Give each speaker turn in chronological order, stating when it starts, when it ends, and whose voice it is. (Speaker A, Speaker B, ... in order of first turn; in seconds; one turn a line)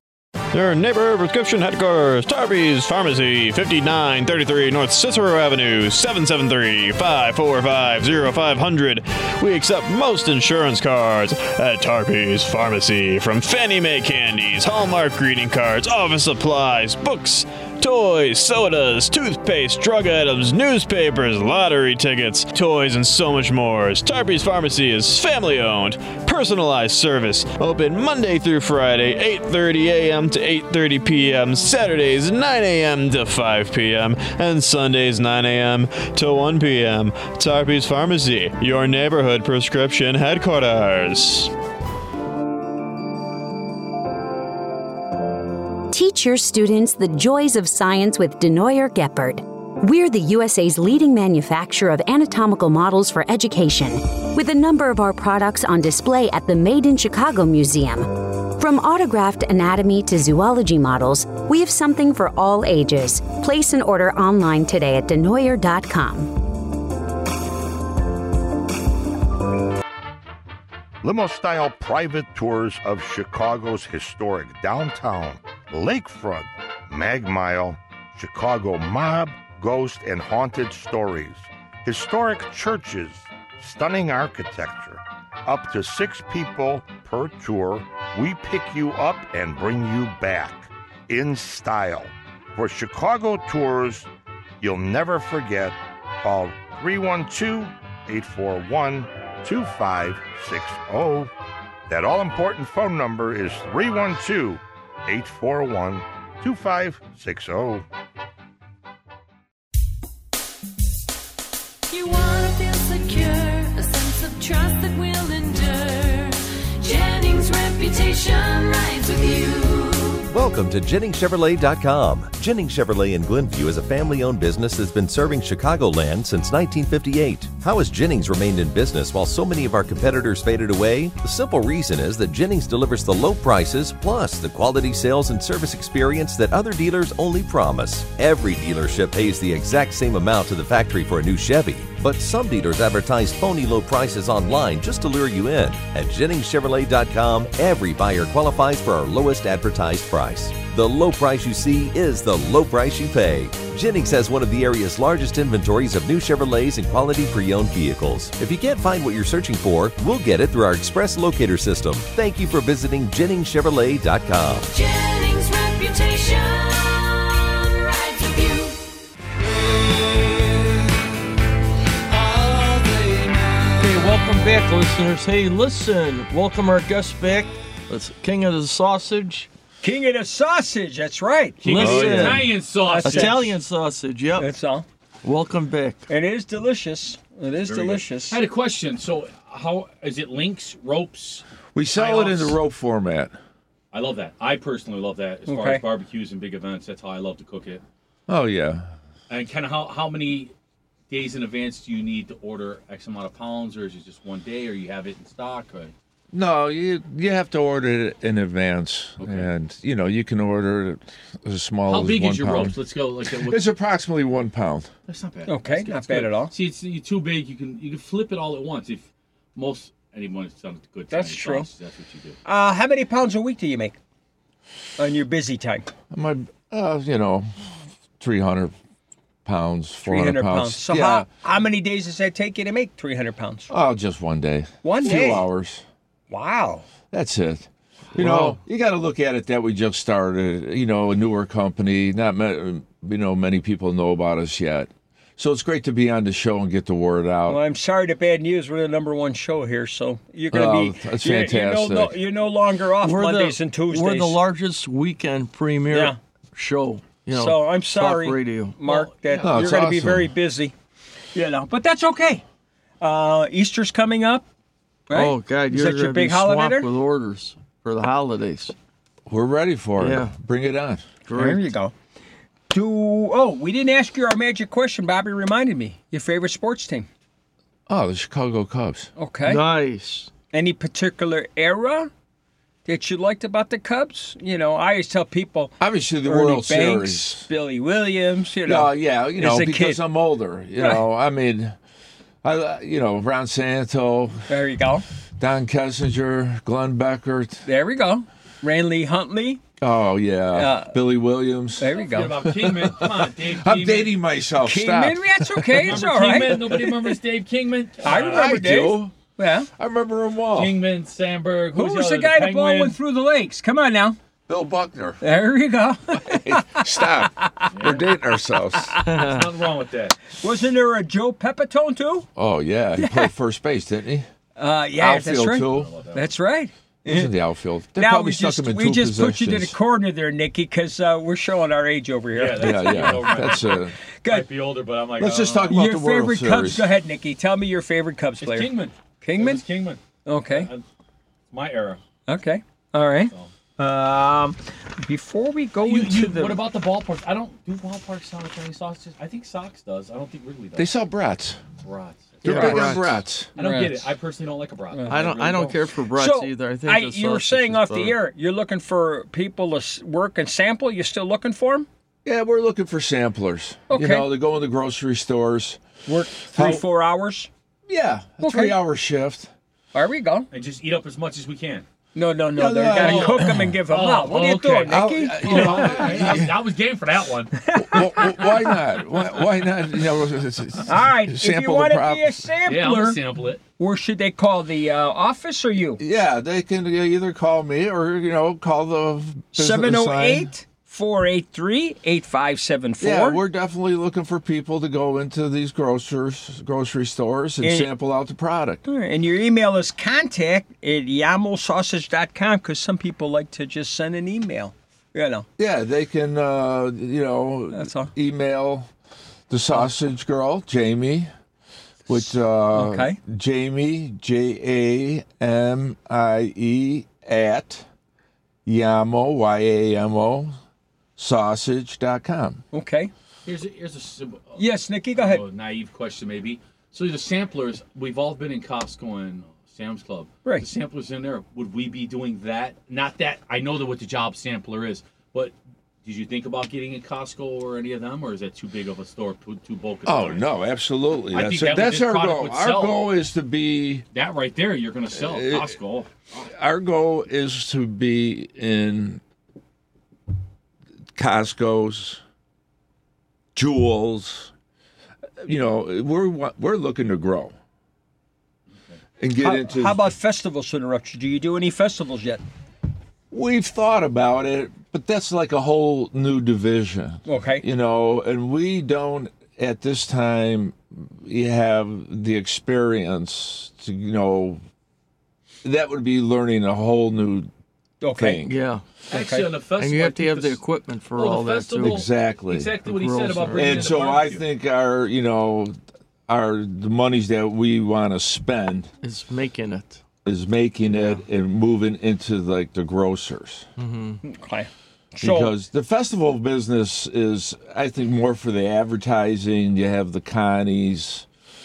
Speaker A: 0.5-41.5
Speaker B: 45.9-66.3
Speaker C: 71.0-94.1
Speaker C: 94.6-101.3
Speaker C: 101.9-107.8
Speaker D: 111.9-120.3
Speaker E: 120.3-164.7
Speaker D: 164.7-168.9
Speaker D: 172.2-173.2
Speaker F: 173.8-179.5
Speaker G: 179.8-183.5
Speaker H: 181.6-183.5
Speaker F: 181.7-182.5
Speaker I: 181.8-182.5
Speaker F: 183.0-184.5
Speaker G: 184.4-184.8
Speaker F: 185.2-186.0
Speaker G: 186.1-188.4
Speaker H: 187.6-192.6
Speaker I: 191.7-193.3
Speaker H: 193.9-197.8
Speaker G: 195.5-195.8
Speaker I: 198.3-198.9
Speaker H: 199.3-200.5
Speaker H: 201.1-205.9
Speaker I: 206.3-212.8
Speaker H: 209.2-209.5
Speaker H: 211.9-213.7
Speaker I: 213.3-214.9
Speaker H: 215.1-222.4
Speaker G: 215.5-216.5
Speaker G: 221.1-221.7
Speaker G: 222.4-223.9
Speaker G: 225.0-225.9
Speaker I: 226.1-227.5
Speaker I: 228.2-228.7
Speaker I: 229.4-231.3
Speaker G: 230.0-233.7
Speaker I: 233.7-235.8
Speaker G: 234.8-235.4
Speaker G: 236.3-236.8
Speaker I: 237.1-247.6
Speaker F: 238.2-238.6
Speaker G: 247.5-254.4
Speaker I: 250.5-252.2
Speaker F: 253.0-258.8
Speaker G: 255.9-256.2
Speaker G: 257.3-260.7
Speaker H: 258.9-259.1
Speaker I: 259.4-260.3
Speaker G: 261.3-262.4
Speaker G: 263.0-264.4
Speaker G: 265.1-266.9
Speaker F: 265.1-268.7
Speaker I: 269.3-271.0
Speaker F: 270.0-270.3
Speaker F: 271.3-271.6
Speaker G: 271.3-271.9
Speaker G: 272.7-277.1
Speaker I: 277.9-279.1
Speaker G: 279.2-279.6
Speaker F: 279.4-280.3
Speaker G: 280.5-282.1
Speaker G: 282.8-290.0
Speaker I: 285.8-287.5
Speaker I: 288.6-291.7
Speaker I: 292.4-294.5
Speaker G: 294.5-295.0
Speaker I: 295.4-297.6
Speaker G: 297.6-299.6
Speaker I: 299.8-306.0
Speaker G: 300.5-300.9
Speaker G: 301.8-302.4
Speaker H: 301.9-304.1
Speaker G: 304.6-306.9
Speaker H: 305.7-308.6
Speaker G: 308.0-309.7
Speaker I: 308.1-309.1
Speaker I: 309.8-310.8
Speaker H: 310.5-312.9
Speaker G: 311.7-314.2
Speaker I: 314.5-315.2
Speaker G: 315.2-317.6
Speaker I: 316.1-318.9
Speaker H: 317.7-318.1
Speaker H: 319.0-320.1
Speaker F: 319.1-319.4
Speaker G: 320.4-322.3
Speaker I: 322.4-324.2
Speaker G: 323.0-323.3
Speaker G: 324.6-327.3
Speaker I: 324.9-325.9
Speaker H: 325.7-326.2
Speaker I: 327.0-329.7
Speaker G: 327.9-333.6
Speaker H: 332.3-335.8
Speaker I: 332.6-333.9
Speaker I: 335.2-336.9
Speaker G: 335.7-338.7
Speaker H: 338.4-340.8
Speaker G: 339.2-339.6
Speaker G: 340.2-340.7
Speaker H: 341.5-342.0
Speaker G: 342.3-346.6
Speaker H: 345.8-350.9
Speaker I: 350.8-351.6
Speaker H: 351.8-355.8
Speaker I: 352.4-353.5
Speaker G: 352.4-352.9
Speaker G: 353.6-353.9
Speaker G: 354.9-355.5
Speaker F: 355.1-358.1
Speaker G: 356.1-361.9
Speaker I: 362.2-365.8
Speaker G: 363.9-364.3
Speaker G: 366.1-367.5
Speaker I: 366.5-366.8
Speaker I: 367.9-369.5
Speaker G: 368.4-368.8
Speaker G: 369.9-370.5
Speaker H: 370.5-371.8
Speaker G: 372.1-376.2
Speaker I: 372.5-373.8
Speaker H: 372.9-377.6
Speaker I: 374.9-376.6
Speaker G: 377.6-378.6
Speaker I: 377.7-382.5
Speaker G: 380.9-383.2
Speaker H: 382.6-383.6
Speaker G: 383.8-386.0
Speaker I: 386.0-390.5
Speaker G: 389.5-393.4
Speaker I: 393.0-398.8
Speaker G: 397.6-397.9
Speaker G: 398.8-405.4
Speaker I: 405.6-408.9
Speaker G: 407.7-408.1
Speaker I: 409.5-411.3
Speaker I: 412.1-417.9
Speaker G: 412.7-413.2
Speaker I: 418.6-420.6
Speaker I: 421.2-422.6
Speaker G: 422.7-423.1
Speaker H: 423.4-440.4
Speaker G: 424.6-425.4
Speaker I: 440.1-444.0
Speaker H: 441.3-443.0
Speaker H: 444.1-446.1
Speaker I: 445.1-445.7
Speaker I: 446.4-449.2
Speaker I: 451.1-452.2
Speaker I: 453.5-454.5
Speaker I: 455.4-457.5
Speaker I: 459.2-460.0
Speaker G: 459.4-462.4
Speaker I: 463.3-474.6
Speaker G: 467.2-467.6
Speaker I: 475.6-477.5
Speaker G: 478.0-478.4
Speaker I: 478.2-478.6
Speaker F: 478.4-478.8
Speaker G: 479.1-479.5
Speaker H: 479.1-480.6
Speaker F: 479.8-482.0
Speaker H: 481.1-484.4
Speaker I: 481.8-482.8
Speaker F: 482.9-484.0
Speaker I: 483.5-485.7
Speaker I: 486.3-488.9
Speaker F: 489.0-490.0
Speaker I: 490.2-493.7
Speaker F: 493.8-494.2
Speaker G: 494.2-495.5
Speaker I: 495.2-501.3